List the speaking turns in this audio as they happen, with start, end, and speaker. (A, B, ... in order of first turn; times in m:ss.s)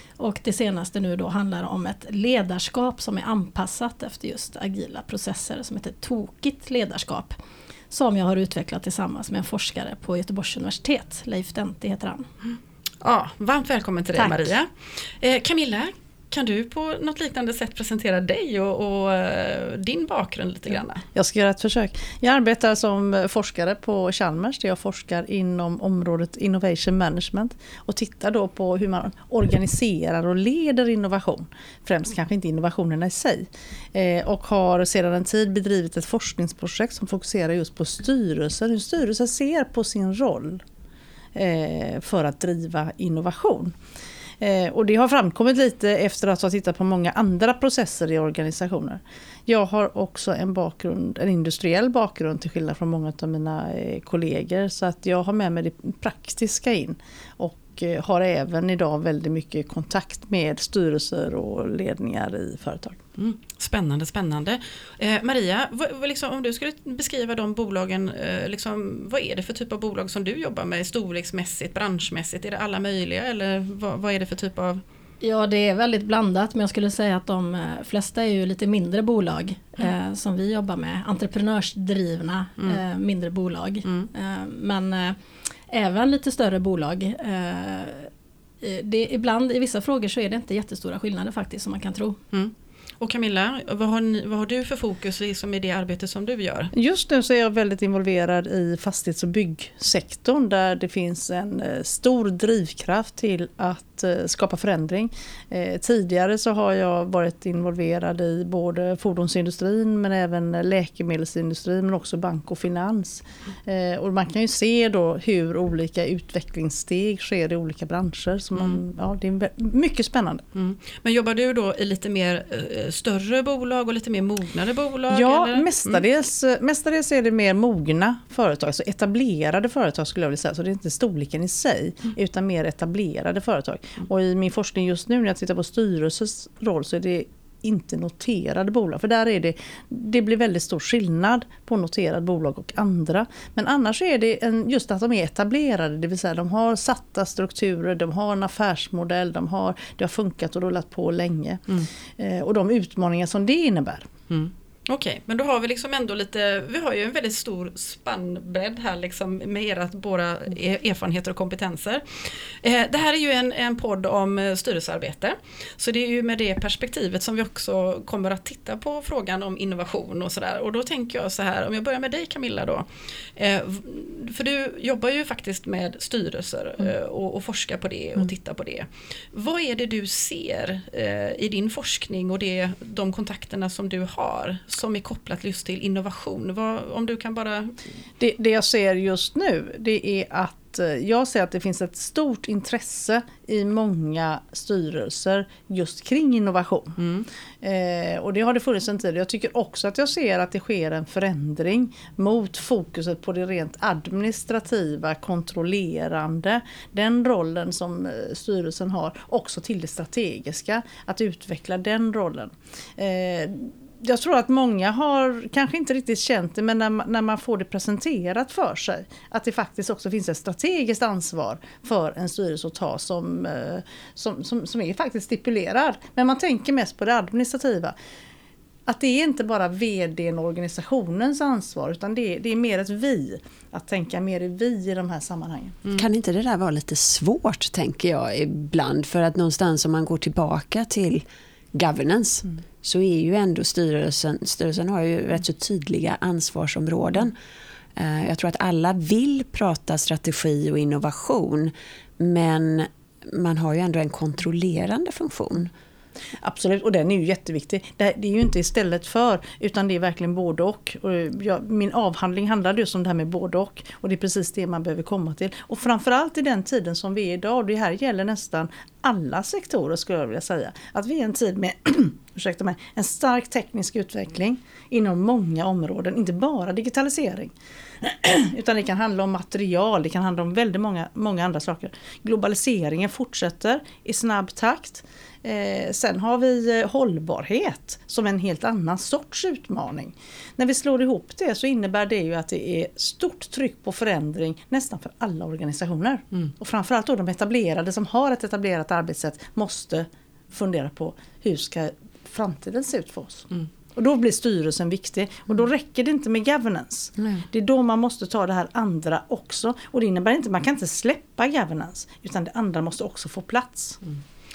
0:00.2-0:07.4 A
0:07.9-0:12.3 A
0:13.0-0:21.0 B
0:14.2-0:14.5 C
0:21.1-0:40.6 C
0:41.4-0:43.8 C
0:44.4-1:03.0 C
1:03.2-1:14.8 B
1:15.2-1:25.2 A
1:25.7-1:28.1 A
1:28.6-1:32.2 A
1:32.3-1:36.7 B
1:36.7-2:00.4 C
2:00.5-2:06.0 B
2:05.1-2:34.1 C
2:34.3-3:07.7 B
3:08.2-3:17.0 C
3:17.0-3:17.3 B
3:17.6-3:48.0 C
3:48.9-3:55.8 C
3:55.9-4:07.4 D
4:08.0-4:15.7 D
4:16.4-5:14.0 C